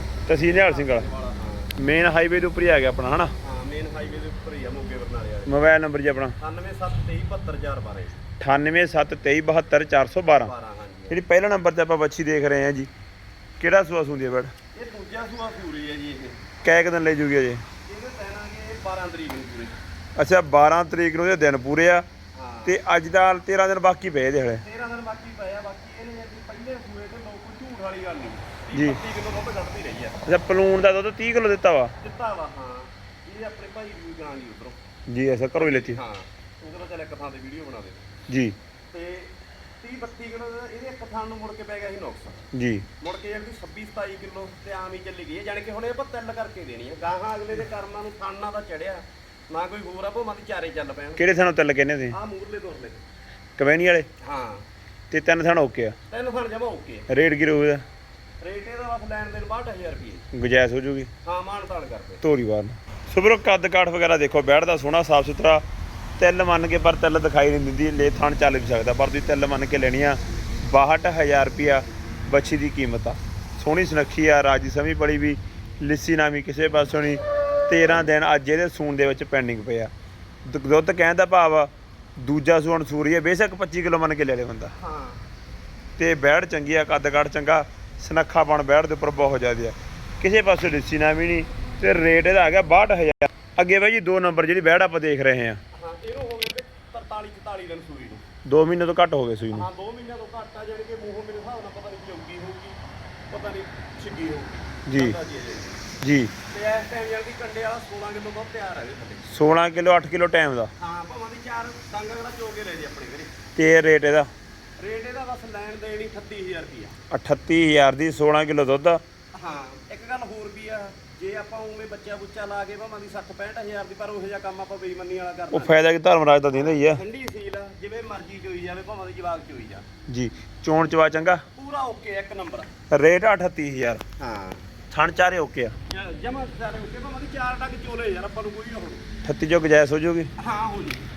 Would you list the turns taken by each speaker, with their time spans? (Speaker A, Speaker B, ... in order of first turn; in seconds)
Speaker A: 0.3-1.1, 1.8-3.3, 5.5-6.4, 8.4-10.5, 11.1-12.9, 13.6-14.5, 16.6-17.6, 20.2-22.1, 22.6-24.6, 28.7-29.0, 30.3-31.9, 35.1-36.0, 38.3-38.6, 42.5-42.9, 51.2-52.2, 53.6-54.1, 55.1-56.0, 57.1-57.8, 60.3-61.1, 62.2-65.6, 66.2-79.9, 80.5-84.7, 86.0-95.6, 98.5-99.7, 104.9-105.2, 106.0-106.3, 109.3-110.7, 113.6-114.3, 117.1-119.0, 125.5-127.0, 130.1-131.4, 132.9-134.0, 134.9-135.8, 139.2-140.3
Speaker B: 0.4-1.8, 3.4-5.6, 6.4-8.2, 10.4-11.2, 14.7-16.5, 17.9-19.8, 22.3-22.8, 24.6-30.2, 32.0-34.8, 35.5-38.1, 38.9-42.4, 43.0-51.3, 52.1-53.0, 54.2-54.7, 56.1-57.1, 58.4-60.2, 61.2-62.2, 84.8-85.3, 95.7-98.2, 99.5-102.8, 103.3-105.8, 106.5-109.3, 110.8-113.4, 114.8-117.0, 119.3-125.8, 126.5-129.9, 131.6-132.7, 134.2-134.7, 135.9-139.1, 140.4-141.1